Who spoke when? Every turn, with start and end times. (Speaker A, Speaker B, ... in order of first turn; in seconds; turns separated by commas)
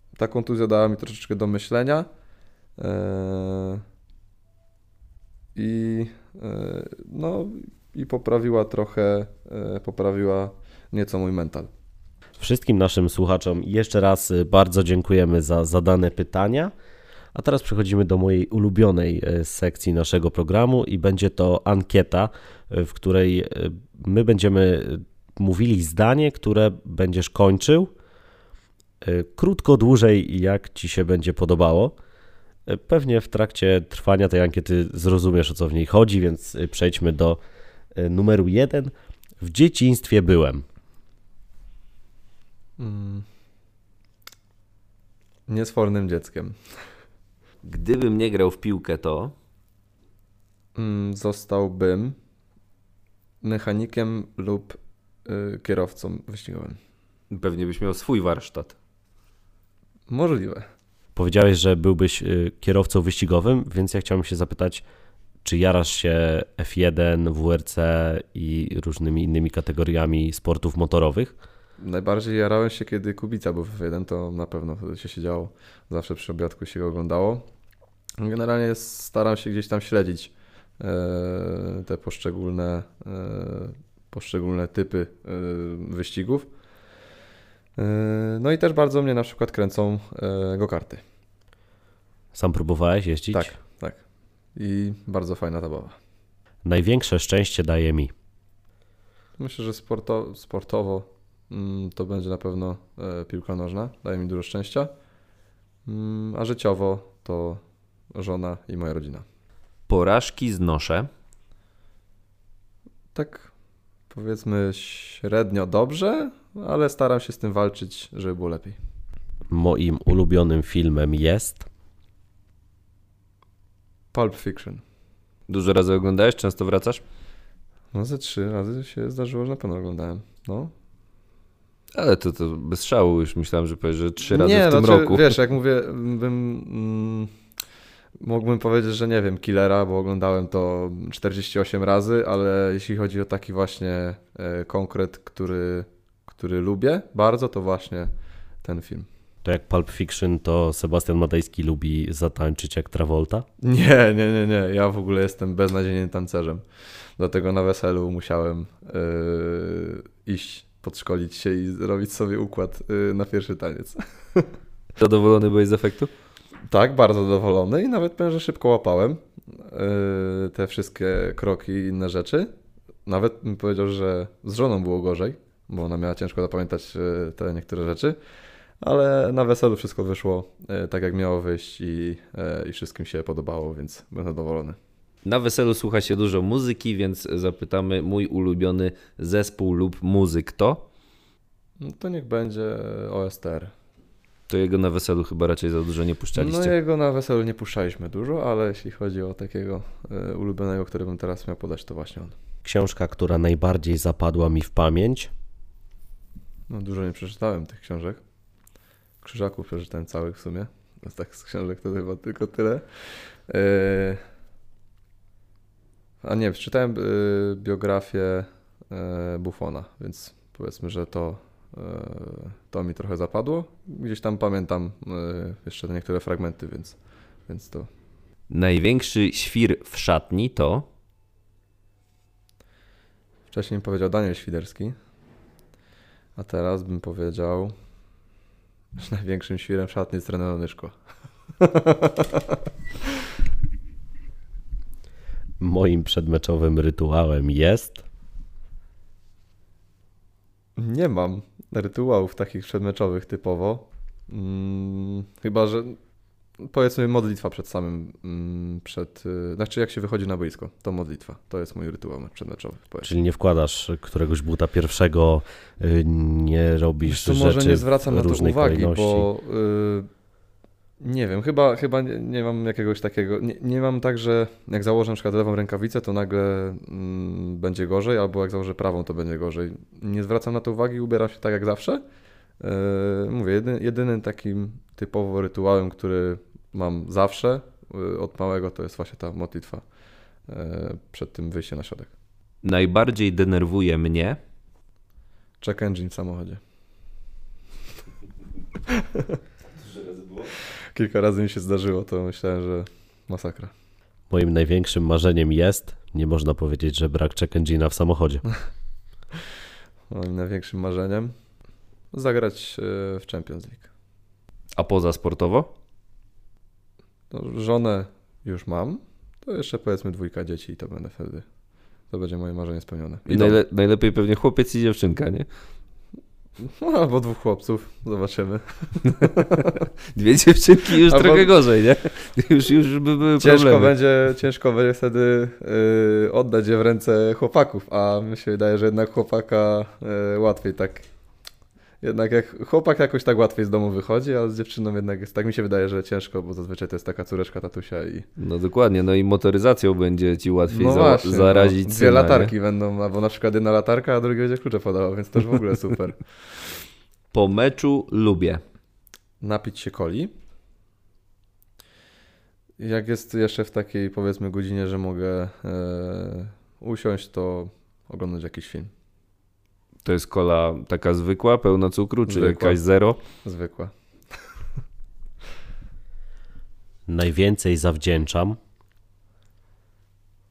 Speaker A: 0.2-2.1, Speaker A: 2.8-3.8, Speaker A: 5.5-11.7, Speaker B: 12.4-16.7, Speaker B: 17.3-27.9, Speaker B: 29.0-32.0, Speaker B: 32.7-37.4, Speaker B: 37.9-40.6, Speaker A: 42.8-43.3, Speaker A: 45.5-46.6, Speaker C: 47.6-49.3, Speaker A: 50.8-52.2, Speaker A: 53.4-56.8, Speaker C: 57.3-58.8, Speaker A: 60.1-60.7, Speaker B: 61.1-64.8, Speaker B: 65.4-71.3, Speaker A: 71.8-77.5, Speaker A: 78.2-86.5, Speaker A: 87.8-91.0, Speaker B: 92.3-93.5, Speaker A: 93.3-94.0, Speaker A: 94.6-96.0, Speaker B: 96.6-98.1, Speaker A: 99.4-104.9, Speaker A: 105.9-107.6, Speaker A: 108.1-109.2, Speaker C: 109.9-111.1, Speaker A: 113.2-113.5, Speaker A: 114.1-118.8, Speaker B: 119.5-121.7, Speaker A: 124.1-124.8, Speaker C: 125.5-127.0, Speaker A: 127.9-130.7, Speaker C: 131.9-135.2, Speaker A: 134.3-137.3, Speaker A: 138.2-148.1, Speaker A: 148.6-149.1, Speaker B: 149.4-153.5, Speaker A: 153.6-156.6, Speaker A: 157.2-164.5, Speaker C: 165.0-166.1, Speaker A: 166.7-172.5, Speaker A: 173.1-178.2, Speaker A: 178.8-184.8, Speaker C: 185.2-190.8, Speaker A: 191.8-193.7, Speaker C: 194.5-196.7, Speaker A: 196.4-202.3, Speaker B: 202.7-205.3, Speaker A: 206.7-208.2, Speaker A: 209.2-212.8, Speaker A: 213.5-214.2, Speaker A: 216.2-227.9, Speaker C: 228.5-230.9, Speaker A: 233.5-234.9, Speaker A: 236.4-237.7, Speaker A: 239.0-240.9, Speaker A: 241.6-242.6, Speaker B: 245.6-248.0, Speaker A: 250.8-256.0, Speaker A: 256.6-263.1, Speaker B: 263.0-269.3, Speaker A: 267.1-270.1, Speaker A: 271.0-282.0, Speaker A: 282.6-289.8, Speaker A: 290.5-292.1, Speaker C: 292.6-294.4, Speaker A: 295.6-296.6, Speaker A: 298.9-299.4, Speaker A: 300.9-303.7, Speaker B: 304.3-308.4, Speaker A: 310.1-311.3, Speaker A: 312.1-313.9, Speaker C: 314.8-315.7, Speaker A: 317.3-321.5, Speaker A: 322.1-323.6, Speaker C: 323.3-325.5, Speaker A: 326.6-329.9, Speaker C: 330.1-333.9, Speaker A: 331.0-331.5, Speaker A: 333.4-341.1, Speaker A: 342.0-348.3, Speaker C: 348.4-352.5, Speaker A: 350.7-356.2, Speaker C: 357.3-358.6, Speaker A: 359.4-360.3, Speaker A: 362.8-368.9, Speaker C: 370.1-373.2, Speaker A: 372.3-372.8, Speaker A: 373.4-373.9, Speaker B: 377.1-378.6